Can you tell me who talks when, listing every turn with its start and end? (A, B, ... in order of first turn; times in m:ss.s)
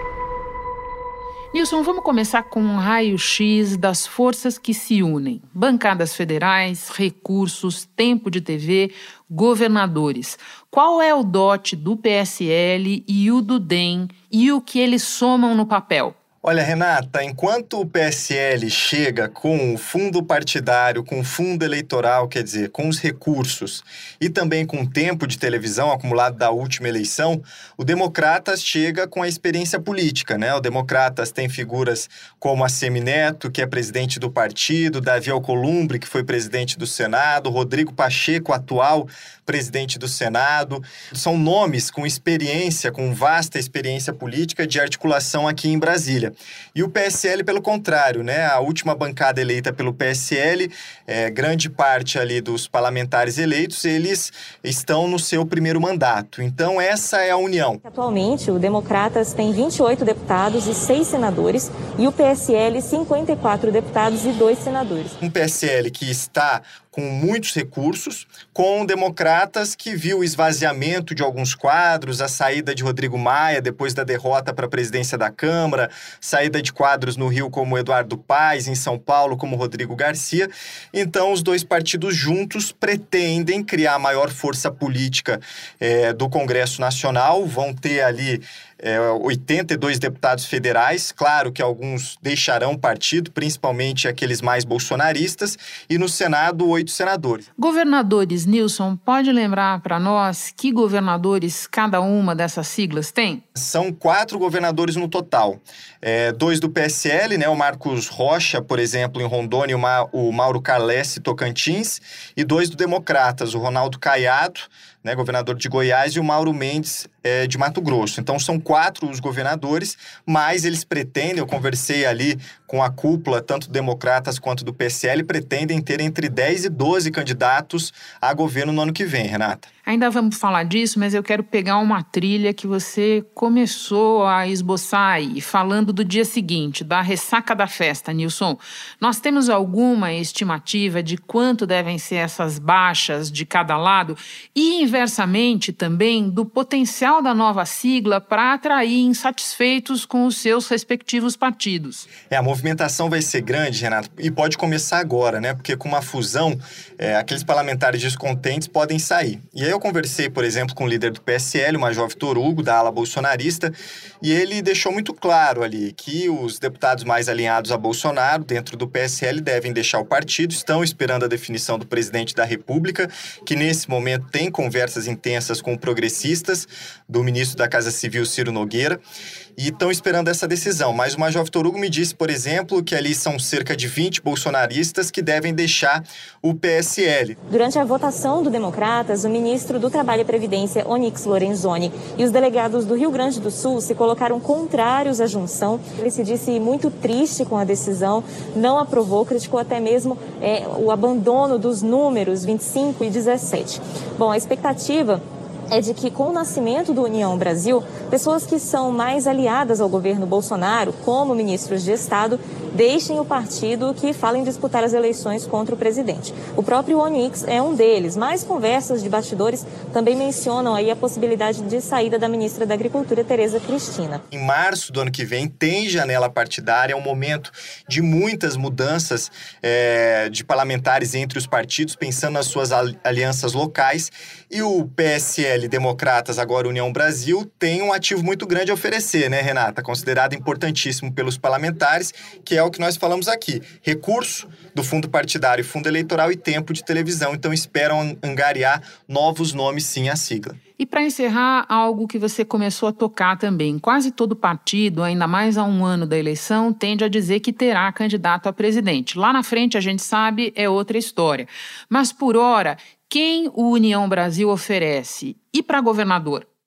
0:01.5-0:16.1 A
0:16.4-0:57.8 B
0:57.8-1:05.2 C
1:05.2-1:37.4 B
1:37.6-1:43.4 A
1:43.6-2:09.7 B
2:09.8-2:32.1 A
2:32.3-2:59.0 B
2:59.6-3:07.4 B
3:07.5-3:44.2 C
3:44.3-4:10.6 B
4:10.8-4:26.5 A